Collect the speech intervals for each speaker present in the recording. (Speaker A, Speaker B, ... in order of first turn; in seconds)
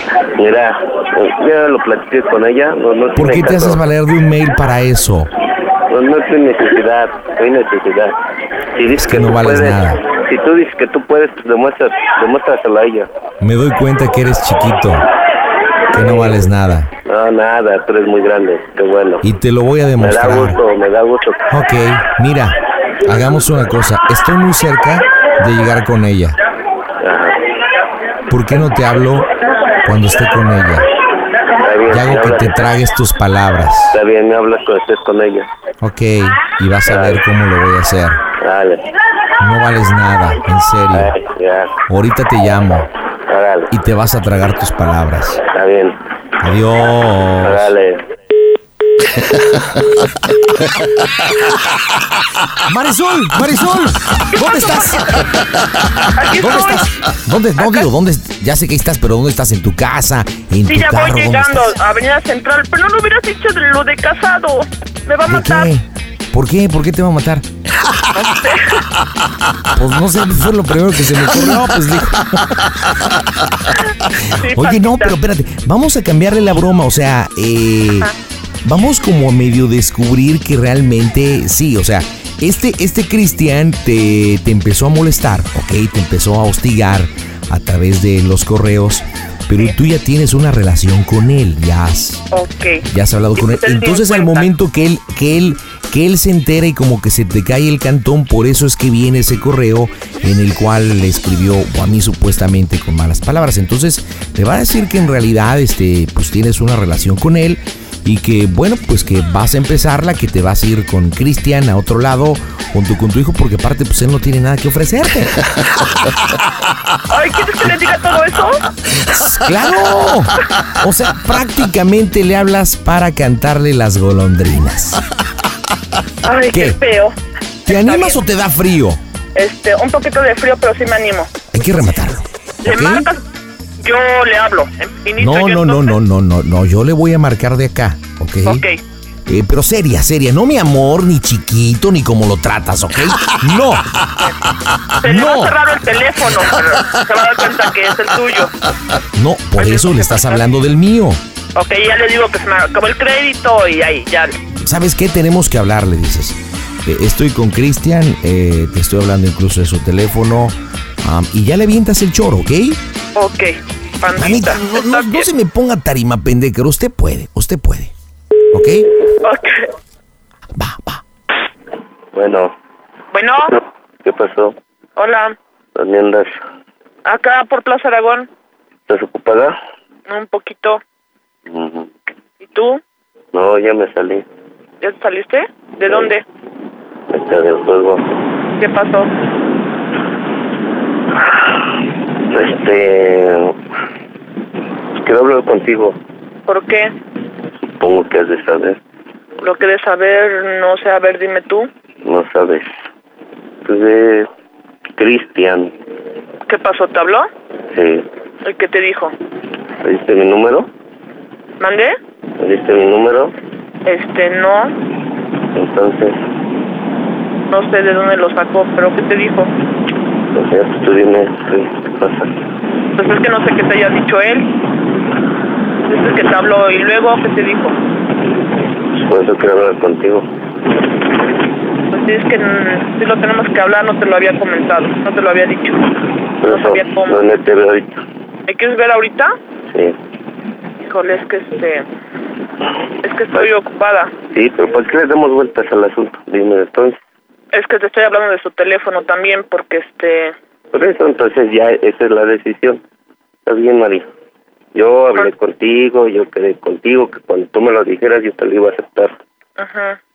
Speaker A: 0.4-3.8, 5.9-8.1, 8.8-13.1, 15.9-16.4, 17.1-19.2, 20.0-21.4, 27.0-27.3, 31.6-32.7, 33.9-35.5, 36.8-37.2, 38.4-38.8, 40.9-41.7, 43.3-43.7, 45.5-46.0, 47.4-48.0, 172.1-172.5, 174.0-174.5, 175.8-176.3, 178.9-179.6, 181.5-181.9, 183.3-184.2, 187.1-188.0, 192.3-193.5, 195.0-195.9, 197.7-198.8, 202.0-202.7, 203.6-204.3, 205.0-205.7, 207.7-208.1, 209.8-210.7, 212.4-213.3, 215.5-216.1, 220.3-222.3, 229.0-230.2, 236.4-238.0, 239.7-239.9, 244.3-247.0, 250.7-252.8, 253.4-254.0, 254.7-259.1
Speaker B: 3.2-5.3, 9.0-10.0, 13.4-15.1, 15.9-16.9, 19.2-20.6, 21.5-26.4, 28.3-29.3, 29.8-30.9, 31.9-33.9, 35.8-38.2, 39.4-41.1, 41.9-42.9, 43.7-45.4, 46.4-47.7, 52.7-54.8, 56.4-61.5, 65.3-65.8, 66.3-67.4, 69.8-72.2, 74.6-78.0, 78.7-92.2, 92.9-115.3, 119.1-125.0, 127.7-129.0, 131.5-133.0, 135.2-138.6, 139.3-143.8, 145.1-145.5, 149.2-151.2, 154.6-162.8, 164.2-167.9, 168.5-168.8, 170.6-171.0
Speaker C: 54.3-55.0, 56.2-56.9, 57.6-57.9, 60.6-65.7, 68.2-68.6, 74.4-75.1, 92.3-92.8, 93.4-94.5, 117.1-118.6, 126.2-127.1, 127.7-128.2, 129.3-131.3, 132.6-133.2, 133.8-136.0, 138.4-138.8, 145.0-148.5, 149.6-150.4, 151.5-154.3, 163.2-165.3, 169.2-169.7, 173.1-173.5, 175.0-175.3, 177.0-178.3, 180.1-180.8, 182.4-182.8, 184.8-186.2, 188.6-189.1, 196.5-196.9, 199.4-201.7, 206.4-207.3, 208.4-209.1, 211.6-212.0, 213.8-214.7, 217.5-219.5, 223.0-224.5, 225.8-227.8, 231.9-235.8, 236.5-237.2, 238.5-239.3, 240.8-241.8, 243.0-244.1, 247.5-250.3, 259.6-260.0